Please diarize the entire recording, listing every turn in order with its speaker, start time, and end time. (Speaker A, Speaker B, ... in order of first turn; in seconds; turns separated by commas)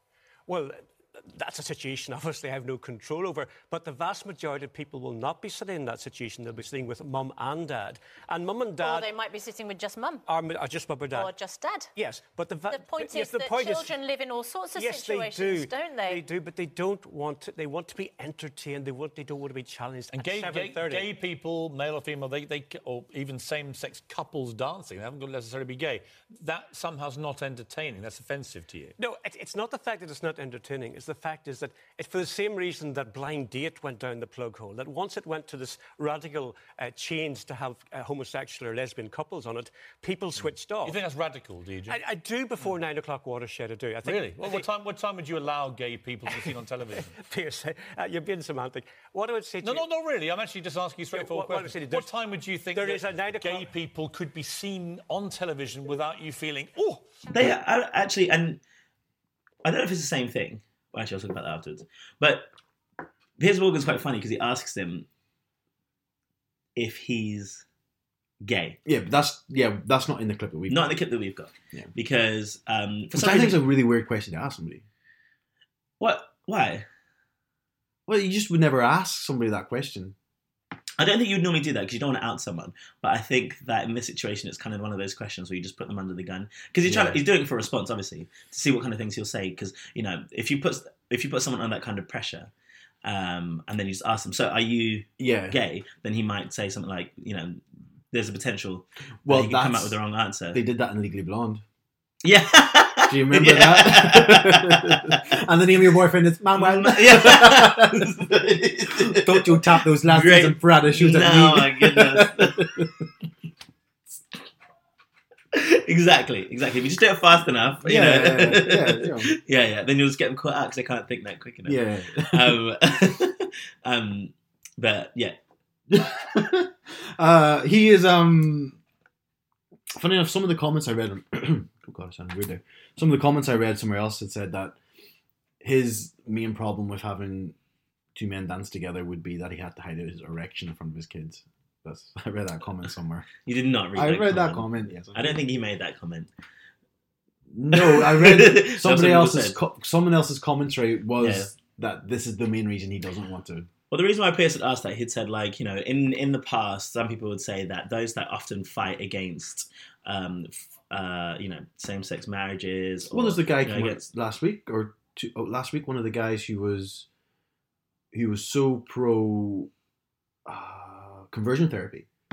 Speaker A: 0.5-9.1, Speaker B: 8.8-10.2, Speaker A: 10.3-11.3, Speaker B: 11.1-11.9, Speaker A: 12.0-14.0, Speaker B: 12.7-16.2, Speaker A: 14.8-21.1, Speaker C: 20.1-28.9, Speaker A: 29.0-41.0, Speaker C: 40.8-42.0, Speaker A: 41.9-44.6, Speaker C: 44.0-47.1, Speaker A: 46.3-49.8, Speaker C: 49.6-57.0, Speaker A: 51.1-52.1, Speaker A: 52.7-53.7, Speaker D: 57.3-58.6, Speaker D: 59.6-62.5, Speaker D: 63.4-65.1, Speaker D: 66.8-67.7, Speaker D: 68.4-68.8, Speaker E: 68.8-70.9, Speaker D: 70.7-73.6, Speaker E: 73.1-74.8, Speaker D: 76.0-76.9, Speaker E: 78.1-80.2, Speaker D: 81.0-92.5, Speaker E: 86.9-87.2, Speaker D: 93.0-100.6, Speaker E: 95.2-95.6, Speaker E: 99.2-100.0, Speaker E: 100.5-101.6, Speaker D: 102.2-105.2, Speaker E: 103.1-108.1, Speaker D: 106.5-112.8, Speaker E: 108.9-113.0, Speaker D: 115.5-125.4, Speaker E: 117.8-119.3, Speaker E: 121.7-122.6, Speaker E: 125.9-128.8, Speaker E: 130.0-134.8, Speaker E: 135.6-137.6, Speaker E: 138.2-143.3, Speaker D: 143.4-146.3, Speaker E: 143.9-145.4, Speaker E: 147.5-153.7, Speaker D: 147.7-149.6, Speaker D: 151.2-151.5, Speaker D: 153.9-164.0, Speaker E: 163.1-167.1, Speaker E: 168.1-169.7, Speaker E: 170.5-172.1